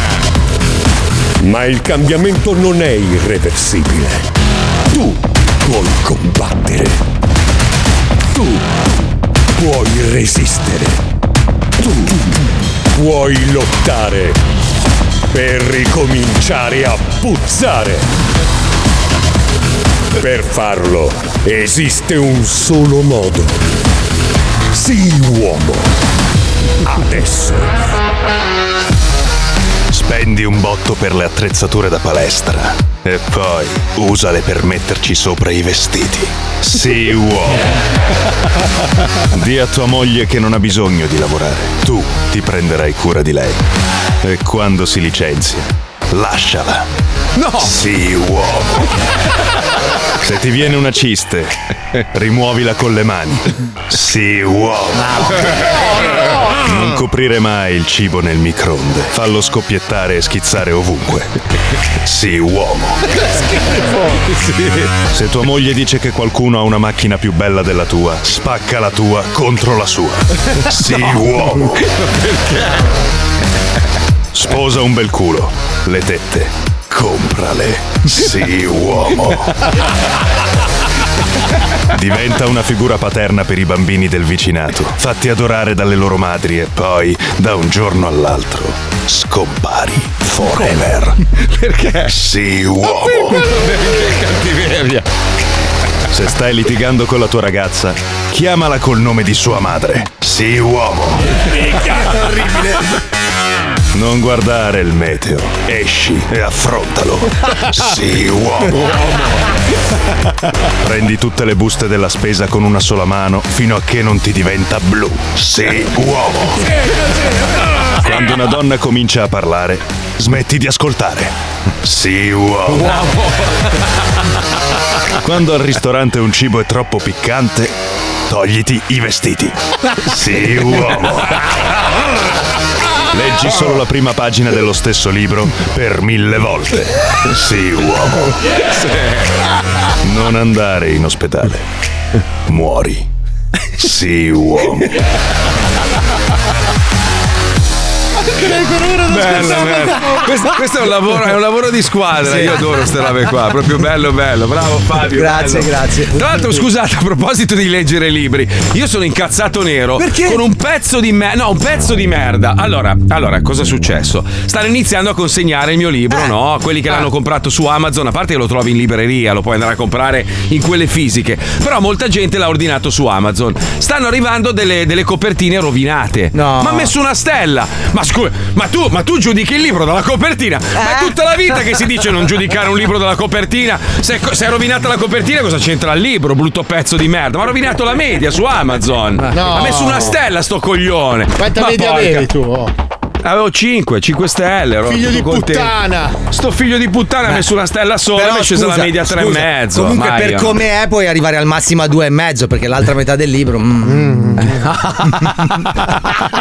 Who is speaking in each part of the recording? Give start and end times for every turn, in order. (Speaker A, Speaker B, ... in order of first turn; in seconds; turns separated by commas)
Speaker A: 1.4-4.3, Speaker A: 4.9-7.0, Speaker A: 8.3-8.7, Speaker A: 9.6-11.0, Speaker A: 11.8-14.4, Speaker A: 15.3-18.1, Speaker A: 20.2-23.7, Speaker A: 24.7-25.9, Speaker A: 26.8-27.8, Speaker B: 29.9-37.7, Speaker B: 39.3-43.6, Speaker B: 44.2-46.9, Speaker C: 47.4-47.7, Speaker B: 47.6-48.9, Speaker B: 50.2-51.5, Speaker B: 52.1-55.5, Speaker B: 56.5-61.3, Speaker B: 62.0-63.2, Speaker C: 63.6-64.9, Speaker B: 65.1-71.8, Speaker C: 71.8-72.9, Speaker B: 74.3-79.6, Speaker B: 81.9-91.2, Speaker C: 91.4-92.2, Speaker B: 92.1-93.4, Speaker C: 92.8-95.1, Speaker B: 96.1-101.3, Speaker B: 103.9-108.9, Speaker B: 110.8-116.7, Speaker B: 118.0-123.0, Speaker C: 122.7-123.7, Speaker B: 125.2-127.7, Speaker B: 128.3-131.4, Speaker B: 133.1-138.4, Speaker C: 138.7-139.2, Speaker B: 140.0-141.6, Speaker B: 142.5-143.1, Speaker B: 143.8-144.9, Speaker D: 148.4-150.4, Speaker C: 149.1-192.3, Speaker D: 152.2-152.8, Speaker D: 155.1-156.6, Speaker D: 160.0-160.4, Speaker D: 176.3-176.9, Speaker E: 189.3-190.2, Speaker E: 191.4-192.7, Speaker C: 193.2-195.7, Speaker E: 194.9-196.2, Speaker C: 196.3-200.6, Speaker D: 198.1-205.7, Speaker E: 203.9-204.6